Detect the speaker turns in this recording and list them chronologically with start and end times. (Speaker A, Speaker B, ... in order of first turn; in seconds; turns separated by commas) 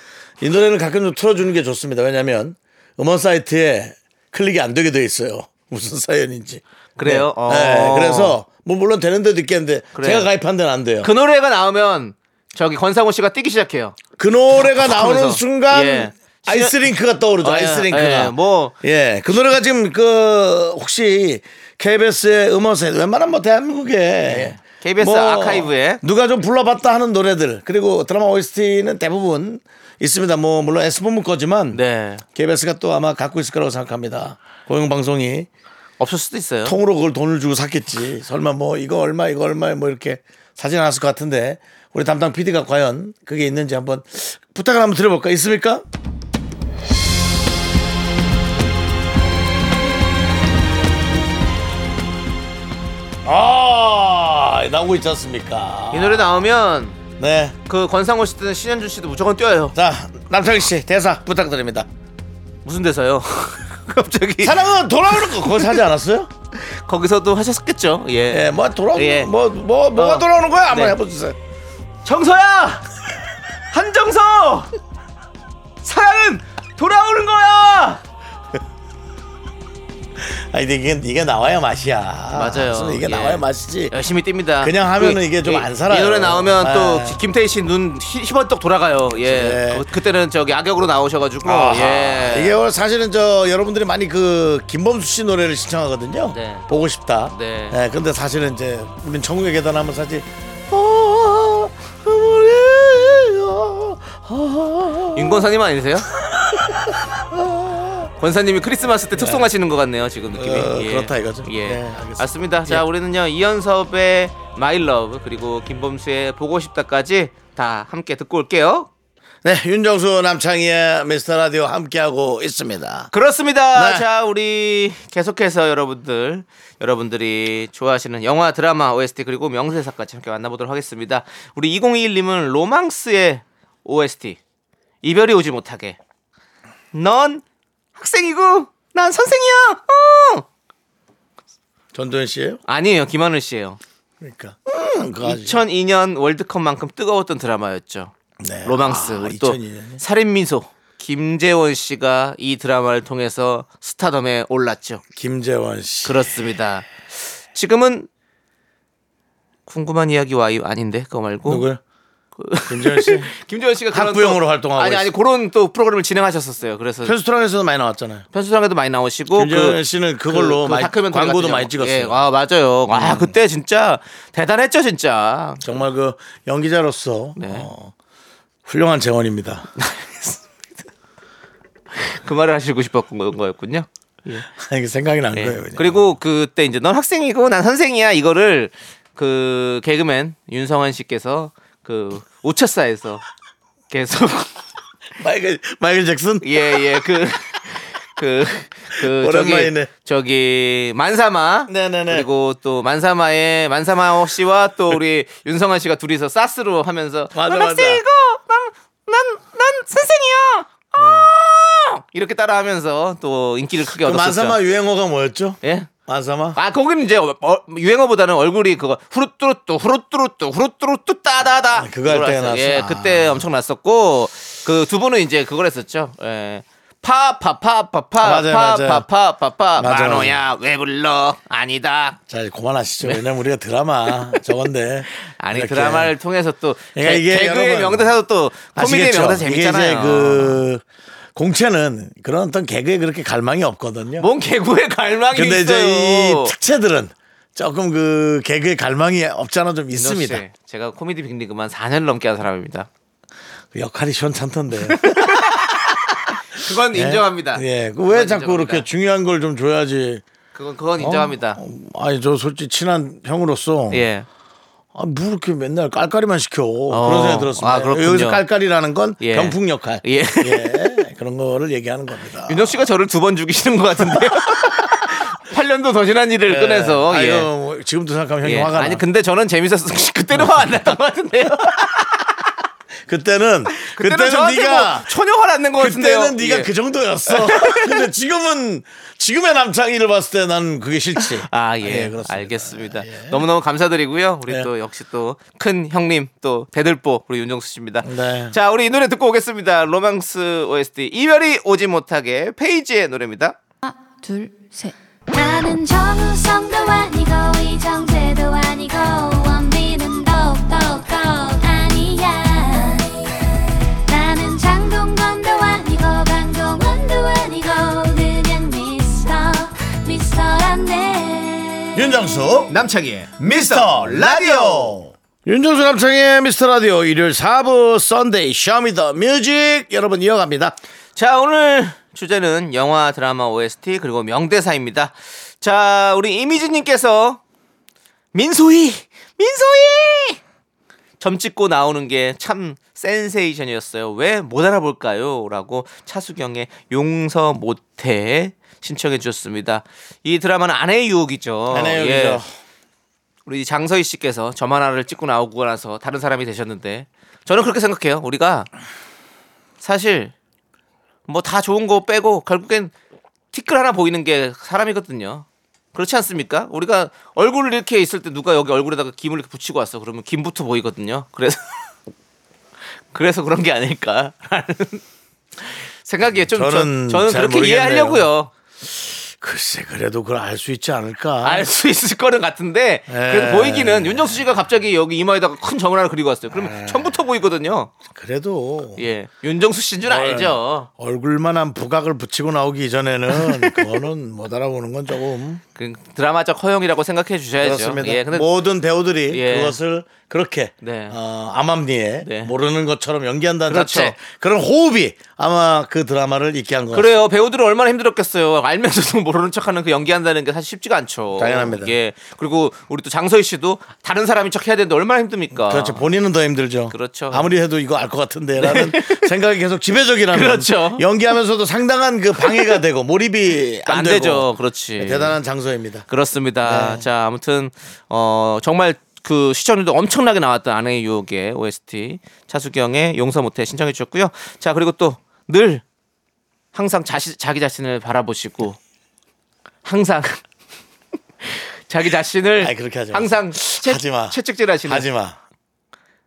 Speaker A: 0.4-11.1, Speaker B: 7.0-8.4, Speaker B: 9.9-10.3, Speaker B: 11.0-14.0, Speaker A: 14.2-31.8, Speaker B: 14.6-16.8, Speaker B: 17.4-18.8, Speaker B: 24.3-26.0, Speaker B: 31.7-32.2, Speaker A: 32.4-35.5, Speaker B: 36.0-36.8, Speaker A: 36.6-45.8, Speaker A: 53.2-56.4, Speaker B: 55.9-57.0, Speaker A: 57.2-57.6, Speaker B: 57.7-59.8, Speaker A: 59.8-61.9, Speaker B: 62.6-65.8, Speaker A: 64.4-66.3, Speaker B: 66.5-69.3, Speaker A: 68.3-71.4, Speaker B: 70.0-71.0, Speaker B: 72.0-72.9, Speaker B: 73.7-74.7, Speaker B: 75.8-78.0, Speaker A: 80.2-83.9, Speaker B: 82.3-92.6, Speaker A: 84.6-87.2, Speaker A: 89.2-89.9, Speaker A: 91.4-105.4, Speaker B: 96.3-96.7, Speaker B: 97.3-97.8, Speaker B: 105.2-106.1, Speaker A: 106.1-108.1, Speaker B: 108.2-118.9, Speaker A: 109.1-109.5, Speaker A: 110.3-112.8, Speaker A: 119.4-123.1, Speaker B: 123.1-134.4, Speaker A: 123.7-124.0, Speaker B: 135.0-136.0, Speaker B: 136.9-137.4, Speaker B: 138.0-140.4, Speaker A: 141.9-142.6, Speaker B: 142.7-143.8, Speaker A: 144.2-145.6, Speaker B: 145.2-148.1, Speaker A: 148.4-150.0, Speaker B: 148.6-155.0, Speaker A: 155.2-156.3, Speaker B: 156.1-158.1, Speaker B: 159.7-161.7, Speaker A: 161.5-161.8, Speaker B: 162.4-167.2, Speaker A: 162.7-163.3, Speaker A: 163.9-165.1, Speaker A: 167.0-168.3, Speaker B: 168.3-175.8, Speaker A: 169.3-172.2, Speaker A: 172.9-173.3, Speaker A: 175.6-177.9, Speaker B: 177.4-177.7, Speaker A: 178.7-179.7, Speaker B: 179.8-180.4, Speaker B: 181.9-184.5, Speaker A: 184.5-186.1, Speaker B: 185.3-193.2, Speaker B: 193.9-194.5, Speaker A: 195.2-197.1, Speaker B: 196.4-214.6, Speaker A: 198.9-199.9, Speaker A: 201.7-202.3, Speaker A: 207.3-208.0, Speaker A: 211.0-211.3, Speaker A: 214.0-216.6, Speaker B: 215.6-215.9, Speaker B: 216.6-232.2, Speaker A: 221.7-223.4, Speaker A: 228.2-229.1, Speaker A: 229.8-230.4, Speaker A: 232.3-236.1, Speaker B: 235.2-240.6, Speaker A: 236.9-238.1, Speaker A: 238.7-240.8, Speaker A: 241.3-244.3, Speaker B: 244.2-246.5, Speaker A: 245.3-250.4, Speaker B: 249.9-252.9, Speaker A: 253.7-256.0, Speaker B: 254.9-255.8, Speaker B: 256.5-258.9, Speaker A: 256.9-260.2, Speaker B: 260.5-261.6, Speaker A: 261.0-264.1, Speaker B: 263.9-264.3, Speaker A: 264.9-272.8, Speaker B: 266.9-268.4, Speaker B: 269.2-271.0, Speaker B: 272.5-277.5, Speaker A: 274.0-274.4, Speaker A: 276.5-279.0, Speaker B: 278.4-282.1, Speaker A: 283.1-285.1, Speaker B: 283.8-286.7, Speaker A: 285.8-293.4, Speaker B: 287.3-288.0, Speaker B: 291.2-303.6, Speaker A: 298.0-298.6, Speaker C: 303.9-322.1, Speaker A: 321.9-322.7, Speaker B: 322.7-325.0, Speaker A: 323.4-330.8, Speaker B: 331.2-337.4, Speaker B: 338.3-340.4, Speaker B: 341.2-352.4, Speaker A: 351.7-352.5, Speaker B: 353.5-358.7, Speaker B: 359.8-360.3, Speaker B: 361.3-362.9, Speaker B: 363.5-371.9, Speaker B: 373.1-375.0, Speaker B: 375.6-378.5, Speaker A: 376.5-378.3, Speaker A: 378.8-381.7, Speaker B: 381.4-387.9, Speaker A: 383.1-384.4, Speaker A: 386.5-387.1, Speaker A: 388.1-389.0, Speaker B: 389.0-390.9, Speaker A: 390.1-395.6, Speaker B: 393.3-393.9, Speaker B: 395.8-398.5, Speaker A: 397.6-407.1, Speaker B: 399.3-399.8, Speaker B: 400.8-401.2, Speaker B: 402.2-402.5, Speaker B: 403.7-404.2, Speaker B: 406.9-416.0, Speaker A: 411.4-411.9, Speaker A: 415.6-426.1, Speaker B: 416.9-417.5, Speaker B: 418.6-419.3, Speaker B: 420.3-421.1, Speaker B: 422.4-422.8, Speaker B: 423.9-425.4, Speaker B: 426.1-435.8, Speaker A: 426.6-427.1, Speaker B: 436.7-438.8, Speaker B: 439.8-440.4, Speaker B: 441.4-445.1, Speaker A: 442.6-445.4